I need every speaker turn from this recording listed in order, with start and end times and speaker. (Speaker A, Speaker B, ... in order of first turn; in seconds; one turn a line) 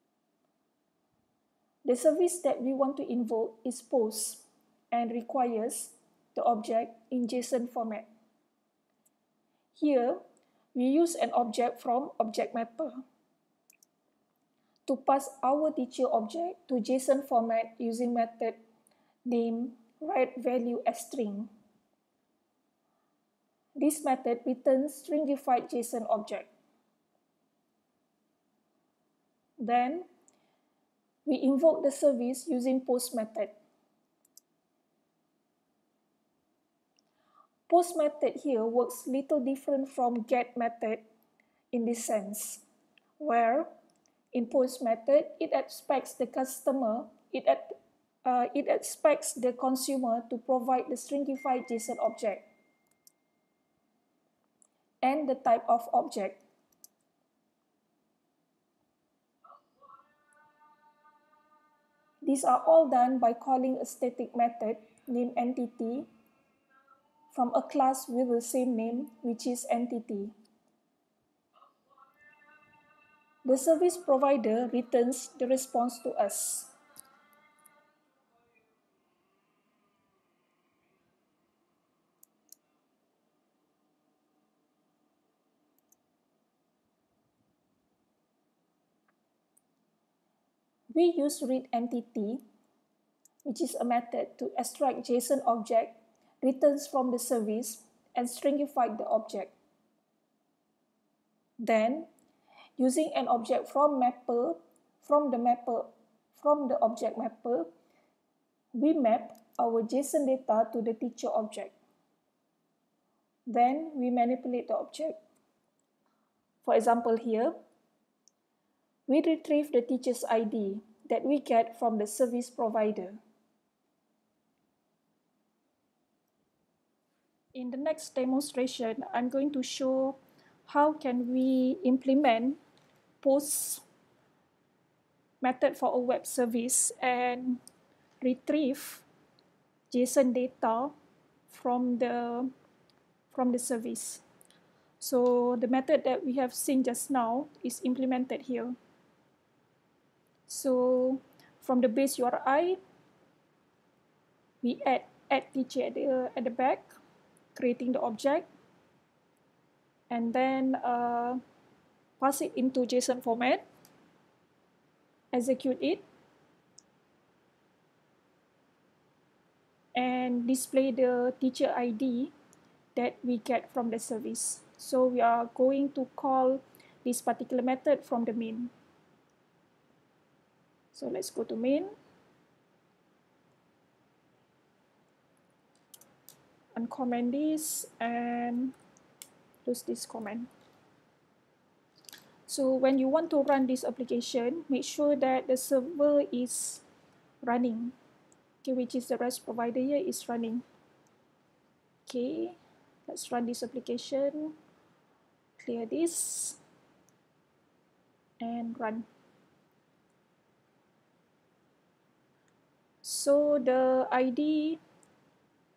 Speaker A: 1.8-8.1
Speaker A: 9.8-10.2
Speaker A: 10.7-13.0
Speaker A: 14.9-18.6
Speaker A: 19.2-21.5
Speaker A: 23.8-26.5
Speaker A: 29.6-30.1
Speaker A: 31.2-33.5
Speaker A: 37.7-41.0
Speaker A: 41.7-42.6
Speaker A: 43.2-43.7
Speaker A: 44.3-52.4
Speaker A: 55.0-56.4
Speaker A: 62.2-66.1
Speaker A: 67.3-70.3
Speaker A: 73.4-76.7
Speaker A: 90.9-92.4
Speaker A: 93.4-99.5
Speaker A: 101.6-102.1
Speaker A: 102.8-107.7
Speaker A: 108.7-111.7
Speaker A: 113.5-115.2
Speaker A: 116.6-117.5
Speaker A: 119.1-123.2
Speaker A: 127.5-132.6
Speaker A: 133.2-133.8
Speaker A: 135.4-137.6
Speaker A: 138.2-139.0
Speaker A: 139.9-140.9
Speaker A: 141.5-142.5
Speaker A: 143.3-144.2
Speaker A: 145.0-148.8
Speaker A: 150.5-152.8
Speaker A: 154.6-156.9
Speaker A: 157.6-158.5
Speaker A: 160.1-161.4
Speaker A: 162.2-163.6
Speaker A: 165.3-166.0
Speaker A: 169.9-172.3
Speaker A: 172.9-178.7
Speaker A: 180.9-181.9
Speaker A: 186.8-188.7
Speaker A: 189.6-190.5
Speaker A: 192.5-196.8
Speaker A: 197.4-197.9
Speaker A: 198.6-200.6
Speaker A: 202.1-204.6
Speaker A: 205.6-206.6
Speaker A: 208.4-209.1
Speaker A: 213.0-214.8